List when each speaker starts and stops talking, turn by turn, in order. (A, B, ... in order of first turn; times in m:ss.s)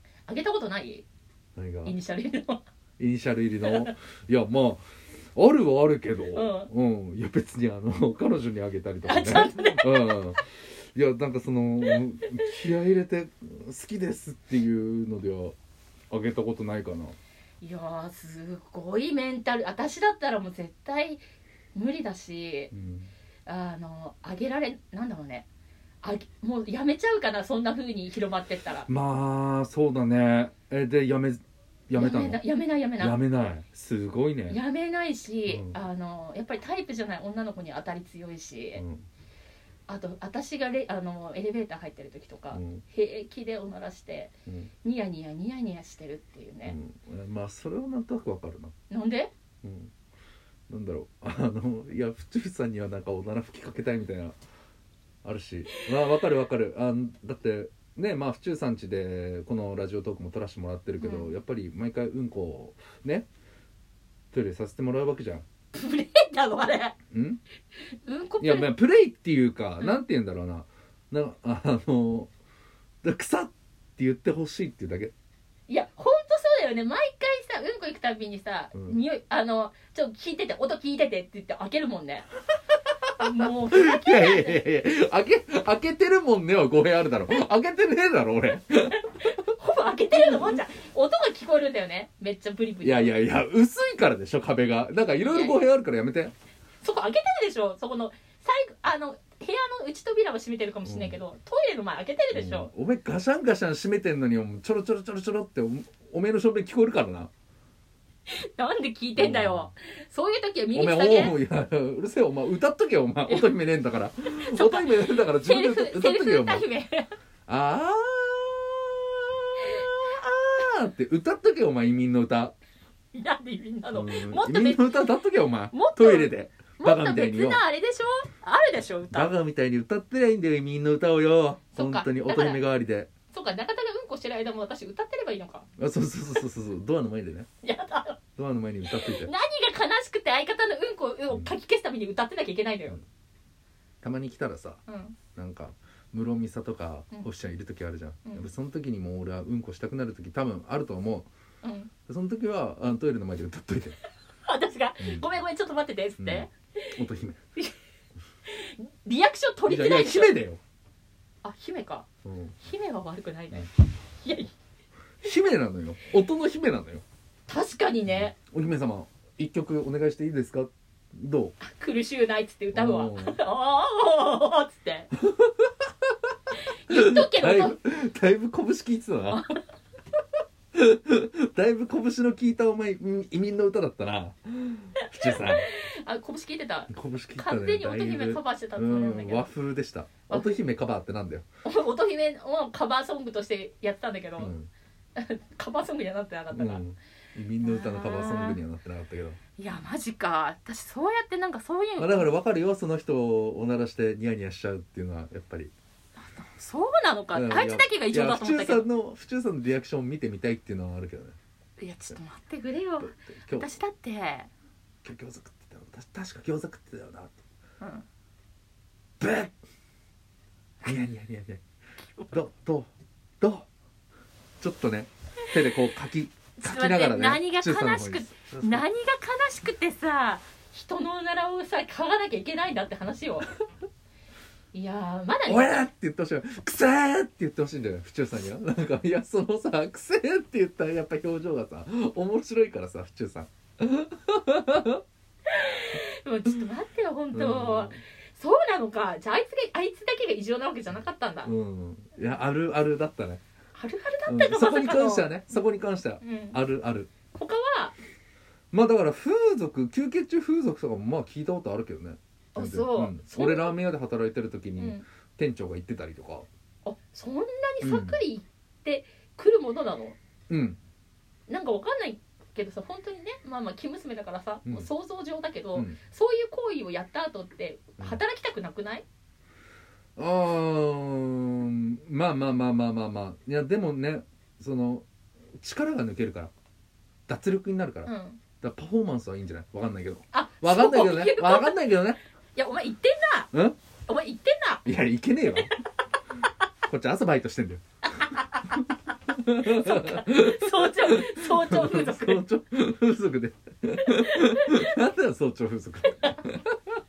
0:00.3-0:01.1 A
0:01.6-0:02.0 B
0:01.8-0:02.6 A
0:03.0-0:04.8 B
0:03.6-0:03.9 A
0:05.4-0:15.6 B
0:06.3-0:06.7 A
0:09.0-0:10.2 A
0:16.1-0:17.2 B
0:17.6-0:21.2 A
0:21.8-0:22.7 A
0:22.7-0:23.1 B
0:23.5-0:25.5 A
0:26.0-0:28.9 A
0:28.9-0:32.4 B
0:32.0-0:33.2 A
0:33.0-0:34.6 B
0:34.5-0:38.8 A
0:35.5-0:35.8 B
0:38.8-0:39.0 B
0:39.9-0:46.8 A
0:42.5-0:42.8 B
0:46.7-0:48.7 B
0:48.9-0:49.3 A
0:49.6-0:49.9 B
0:50.7-0:54.4 B
0:55.2-1:03.3 B
0:55.7-0:56.2 A
1:01.0-1:01.3 A
1:04.3-1:05.4 B
1:05.8-1:07.0 A
1:07.1-1:07.4 B
1:08.0-1:08.7 A
1:08.4-1:12.3 B
1:13.0-1:15.1 B
1:15.7-1:22.3 A
1:23.2-1:24.6 A
1:23.2-1:29.3 B
1:29.2-1:33.1 A
1:30.1-1:30.6 B
1:32.8-1:36.3 B
1:35.2-1:35.6 A
1:36.8-1:42.7 A
1:40.8-1:41.2 B
1:42.3-1:47.3 B
1:48.3-1:51.4 A
1:49.2-1:49.7 B
1:50.7-1:56.6 B
1:54.4-1:57.1 A
1:57.5-2:02.5 B
2:03.1-2:05.1 A
2:03.9-2:07.6 B
2:05.7-2:09.3 A
2:09.1-2:13.1 B
2:11.7-2:12.6 A
2:13.3-2:15.7 A
2:15.8-2:17.5 B
2:17.6-2:18.2 A
2:18.4-2:19.3 B
2:18.9-2:23.0 A
2:24.0-2:24.8 B
2:24.9-2:25.2 A
2:25.4-2:31.3 B
2:31.6-2:31.9 A
2:32.1-2:34.0 B
2:34.5-2:36.9 A
2:35.0-2:35.3 B
2:36.2-2:37.4 B
2:38.5-2:40.4 A
2:39.7-2:40.6 B
2:41.4-2:42.1 A
2:42.2-2:42.6 B
2:42.6-2:44.5 A
2:45.2-2:47.0 B
2:47.5-2:48.3 A
2:48.1-2:51.6 B
2:51.6-2:55.1 A
2:52.7-2:53.4 B
2:55.2-2:55.7 B
2:56.9-2:57.8 A
2:56.9-2:59.4 B
2:59.3-2:59.6 A
3:00.7-3:05.6 B
3:05.0-3:09.5 A
3:06.9-3:11.4 B
3:10.3-3:10.6 A
3:11.6-3:14.5 A
3:14.4-3:14.7 B
3:15.2-3:16.8 A
3:16.5-3:19.4 B
3:17.6-3:18.6 A
3:19.6-3:22.3 A
3:22.0-3:25.7 B
3:26.2-3:28.9 A
3:27.3-3:31.4 B
3:31.8-3:34.5 A
3:33.3-3:33.7 B
3:35.0-3:37.4 B
3:39.2-3:39.6 B
3:40.8-3:41.6 B
3:42.3-3:43.7 B
3:44.6-3:48.8 B
3:46.6-3:53.5 A
3:54.7-3:55.8 A
3:55.5-4:05.0 B
4:05.5-4:11.5 A
4:07.3-4:08.0 B
4:11.4-4:13.4 B
4:13.8-4:15.6 A
4:14.3-4:17.1 B
4:16.2-4:16.6 A
4:17.3-4:18.0 A
4:18.7-4:26.5 B
4:22.6-4:23.8 A
4:24.8-4:25.0 A
4:26.9-4:30.2 A
4:27.8-4:28.2 B
4:30.5-4:30.8 B
4:31.5-4:39.0 A
4:40.2-4:45.1 B
4:45.6-4:46.5 B
4:47.3-4:52.2 B
4:48.1-4:48.4 A
4:50.3-4:51.9 A
4:52.6-4:53.5 A
4:54.1-4:54.8 A
4:54.8-4:55.7 B
4:56.9-4:57.8 B
4:58.2-4:58.8 A
4:59.3-5:06.8 B
4:59.6-5:02.4 A
5:04.1-5:05.0 A
5:06.1-5:06.4 A